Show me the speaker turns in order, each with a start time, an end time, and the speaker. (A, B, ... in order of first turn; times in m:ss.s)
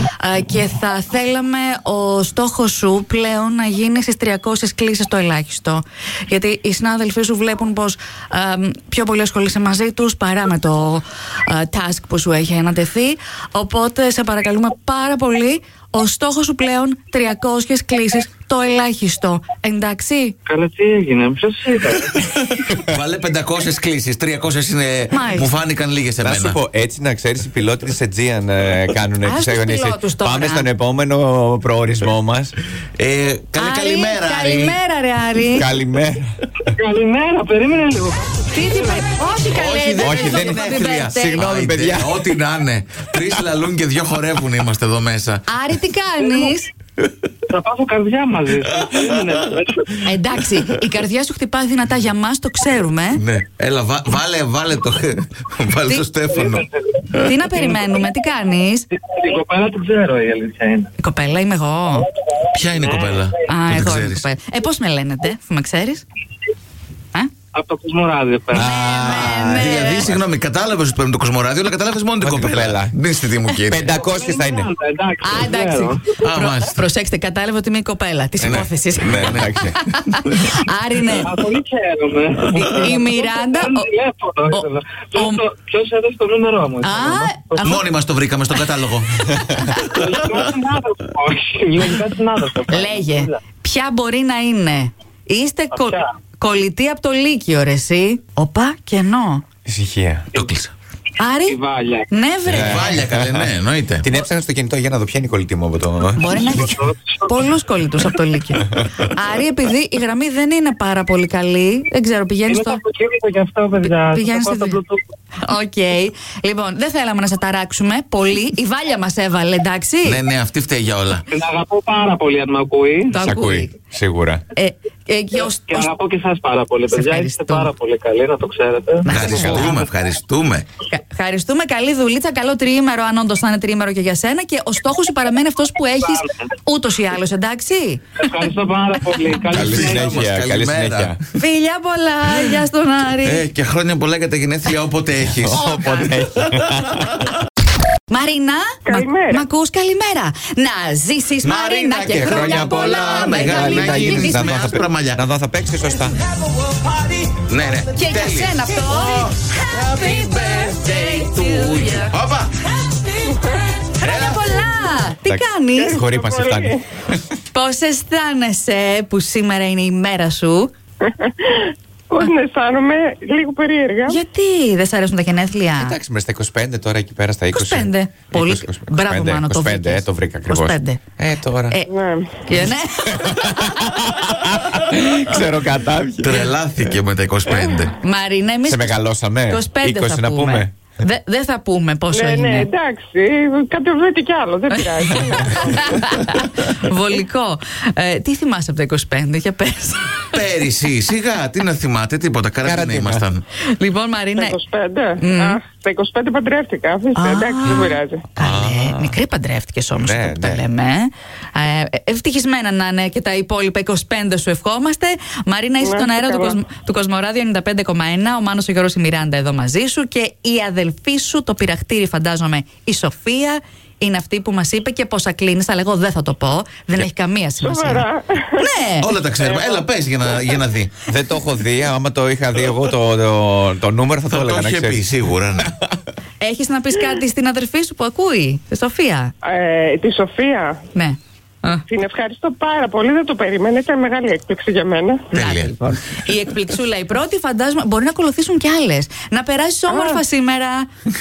0:00.2-0:20.4 A
0:20.5-0:22.3 B
0:22.2-0:26.6 C
0:25.1-0:25.5 A
0:26.2-0:32.6 D
0:29.2-0:30.7 A
0:33.0-0:34.8 C
0:33.6-0:35.7 A
0:35.5-0:36.3 D
0:36.8-0:39.2 B
0:38.5-0:41.4 A
0:39.5-0:45.4 C
0:40.0-0:42.1 D
0:45.5-0:46.7 A
0:47.5-0:50.1 B
0:50.0-0:53.2 A
0:53.2-0:57.3 C
0:56.3-0:58.0 B
0:57.2-0:58.9 A
0:58.9-1:00.9 B
1:01.0-1:02.1 A
1:02.5-1:04.2 C
1:02.7-1:03.3 B
1:03.5-1:06.0 A
1:07.5-1:08.8 B
1:08.5-1:10.1 D
1:08.5-1:10.1 A
1:08.9-1:14.1 C
1:12.2-1:12.9 D
1:13.7-1:14.7 D
1:13.9-1:16.6 B
1:15.2-1:21.4 A
1:16.2-1:16.8 C
1:18.4-1:20.5 C
1:18.5-1:19.8 D
1:21.2-1:27.8 B
1:22.6-1:23.9 A
1:24.5-1:25.4 A
1:26.8-1:27.8 A
1:27.6-1:29.2 C
1:29.2-1:30.0 A
1:29.8-1:33.4 B
1:32.7-1:39.4 A
1:35.7-1:36.1 B
1:39.7-1:40.3 D
1:40.3-1:40.7 C
1:41.2-1:43.0 A
1:41.5-1:42.1 B
1:42.5-1:44.1 C
1:42.5-1:43.5 D
1:44.0-1:46.4 D
1:46.2-1:52.8 A
1:46.5-1:47.3 B
1:52.5-1:55.0 B
1:53.9-1:54.8 A
1:55.4-2:00.2 A
2:00.0-2:01.3 C
2:01.3-2:03.2 B
2:03.1-2:03.8 A
2:03.2-2:04.4 D
2:04.6-2:05.9 A
2:05.3-2:09.1 B
2:06.9-2:07.7 A
2:09.0-2:09.8 A
2:09.1-2:09.8 D
2:09.1-2:10.7 C
2:10.9-2:18.3 A
2:18.2-2:20.1 B
2:19.5-2:21.2 C
2:19.5-2:21.2 D
2:21.4-2:23.4 A
2:23.2-2:25.7 C
2:25.3-2:27.3 D
2:25.5-2:26.2 A
2:28.1-2:34.8 A
2:28.8-2:29.4 E
2:31.4-2:35.2 C
2:32.2-2:36.2 D
2:36.7-2:42.6 C
2:37.9-2:42.2 A
2:42.8-2:46.0 A
2:44.0-2:44.6 C
2:45.2-2:46.8 D
2:45.8-2:46.8 E
2:47.5-2:50.7 A
2:51.0-2:54.2 E
2:54.1-2:56.0 A
2:55.8-3:01.8 D
2:57.5-3:01.0 A
3:01.9-3:02.3 E
3:02.4-3:04.1 A
3:03.0-3:06.5 D
3:06.2-3:08.0 C
3:08.0-3:12.7 A
3:08.6-3:10.7 D
3:12.1-3:16.1 E
3:15.3-3:20.4 A
3:20.3-3:23.4 C
3:22.6-3:23.2 D
3:23.8-3:24.6 A
3:24.4-3:28.2 E
3:25.2-3:25.6 A
3:27.2-3:49.1 A
3:28.4-3:29.2 D
3:30.0-3:30.6 D
3:35.8-3:36.6 E
3:47.6-3:48.7 E
3:49.0-3:51.0 C
3:49.4-3:49.9 E
3:51.1-3:55.1 D
3:54.3-3:55.7 C
3:55.6-3:55.9 D
3:56.4-3:59.3 A
3:59.4-4:00.8 E
4:00.9-4:01.8 A
4:01.9-4:05.3 E
4:05.3-4:05.7 C
4:05.3-4:10.9 A
4:09.9-4:10.2 E